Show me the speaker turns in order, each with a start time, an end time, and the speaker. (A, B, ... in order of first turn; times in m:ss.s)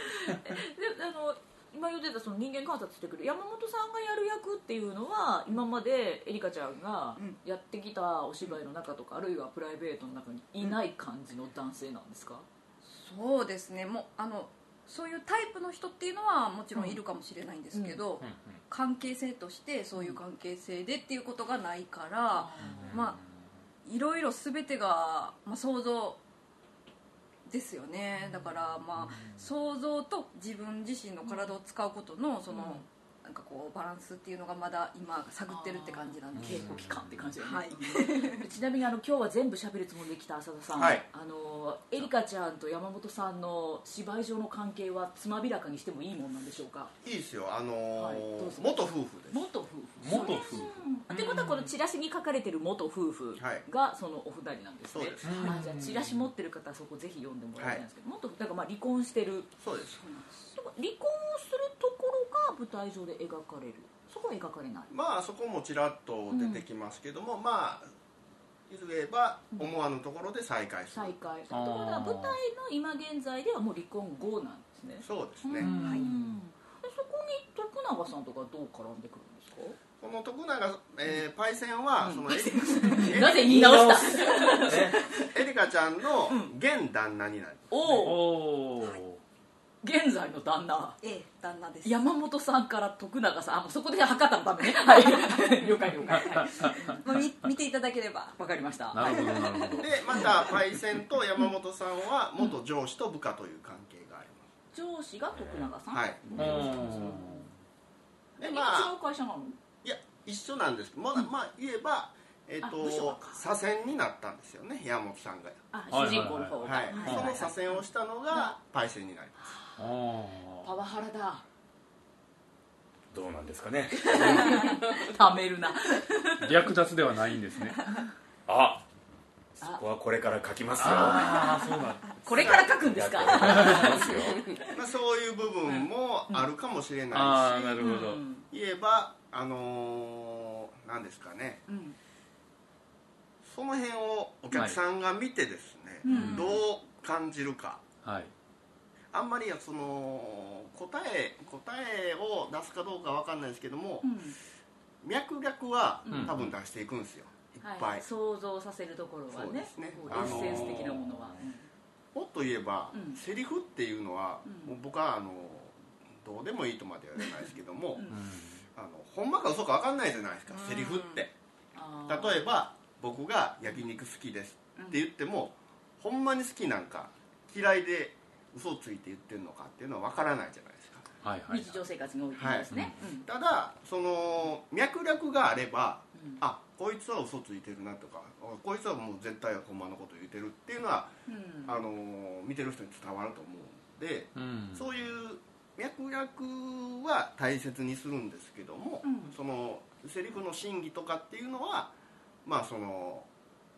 0:00.2-0:12.4 A
0:12.9-0:23.2 B
0:17.7-0:18.0 A
0:18.2-0:18.6 C
0:19.9-0:20.2 A
0:22.3-0:23.0 A
0:22.6-0:23.3 C
0:23.8-0:26.2 B
0:27.5-0:36.8 B
0:28.2-0:28.5 A
0:29.0-0:29.3 C
0:31.2-0:31.5 A
0:32.5-0:32.8 A
0:35.5-0:46.9 A
0:36.3-0:37.3 C
0:37.4-0:38.5 B
0:40.8-0:41.0 D
0:47.0-0:49.4 D
0:48.0-0:59.5 A
0:50.0-0:51.7 C
0:53.4-0:53.6 D
0:54.9-0:55.6 D
0:55.2-0:56.3 C
0:57.6-0:57.8 D
0:59.6-1:00.0 D
1:00.3-1:04.9 A
1:04.9-1:07.9 D
1:06.3-1:06.6 A
1:08.7-1:11.2 D
1:10.9-1:19.8 A
1:11.5-1:12.4 C
1:15.0-1:15.7 D
1:15.6-1:16.1 C
1:15.8-1:16.0 B
1:20.0-1:23.7 D
1:22.0-1:25.4 A
1:23.2-1:25.0 E
1:24.7-1:27.7 D
1:26.2-1:26.5 A
1:27.7-1:28.3 A
1:27.8-1:29.2 C
1:29.8-1:31.0 A
1:31.0-1:32.0 B
1:31.8-1:37.0 A
1:36.2-1:36.9 C
1:36.6-1:38.4 B
1:38.4-1:39.2 A
1:38.9-1:40.2 C
1:39.0-1:39.8 B
1:39.8-1:44.4 D
1:44.7-1:47.5 A
1:45.3-1:45.7 E
1:45.9-1:46.4 D
1:46.4-1:47.5 C
1:48.4-1:48.9 D
1:48.4-1:49.6 A
1:49.8-1:59.6 D
1:52.6-1:53.4 A
1:55.7-1:57.8 A
1:55.9-1:57.3 C
1:59.8-2:00.7 C
2:00.6-2:01.4 A
2:03.1-2:04.8 E
2:04.0-2:06.7 A
2:06.4-2:07.8 C
2:08.4-2:08.8 E
2:09.6-2:11.4 E
2:10.8-2:12.0 C
2:10.8-2:11.6 A
2:12.2-2:14.7 A
2:12.3-2:12.8 D
2:12.4-2:14.5 E
2:13.4-2:13.9 C
2:14.7-2:21.6 D
2:17.1-2:18.2 C
2:17.8-2:18.4 A
2:21.7-2:22.0 A
2:23.4-2:27.8 D
2:26.0-2:26.6 A
2:26.0-2:26.6 C
2:28.0-2:28.3 C
2:29.1-2:34.2 D
2:34.0-2:34.4 A
2:35.0-2:38.0 D
2:36.0-2:36.3 A
2:36.1-2:36.5 C
2:37.6-2:41.7 A
2:39.3-2:41.0 D
2:40.1-2:41.3 C
2:42.1-2:48.0 D
2:42.9-2:43.2 A
2:44.4-2:44.7 A
2:48.1-2:48.6 C
2:48.8-2:51.3 D
2:50.5-2:51.2 B
2:51.7-2:52.4 A
2:52.0-3:01.1 D
3:01.2-3:01.8 C
3:01.5-3:03.2 A
3:02.3-3:21.9 D
3:06.2-3:06.4 A
3:11.3-3:11.8 A
3:14.3-3:14.9 C
3:19.0-3:19.3 A
3:22.4-3:23.3 D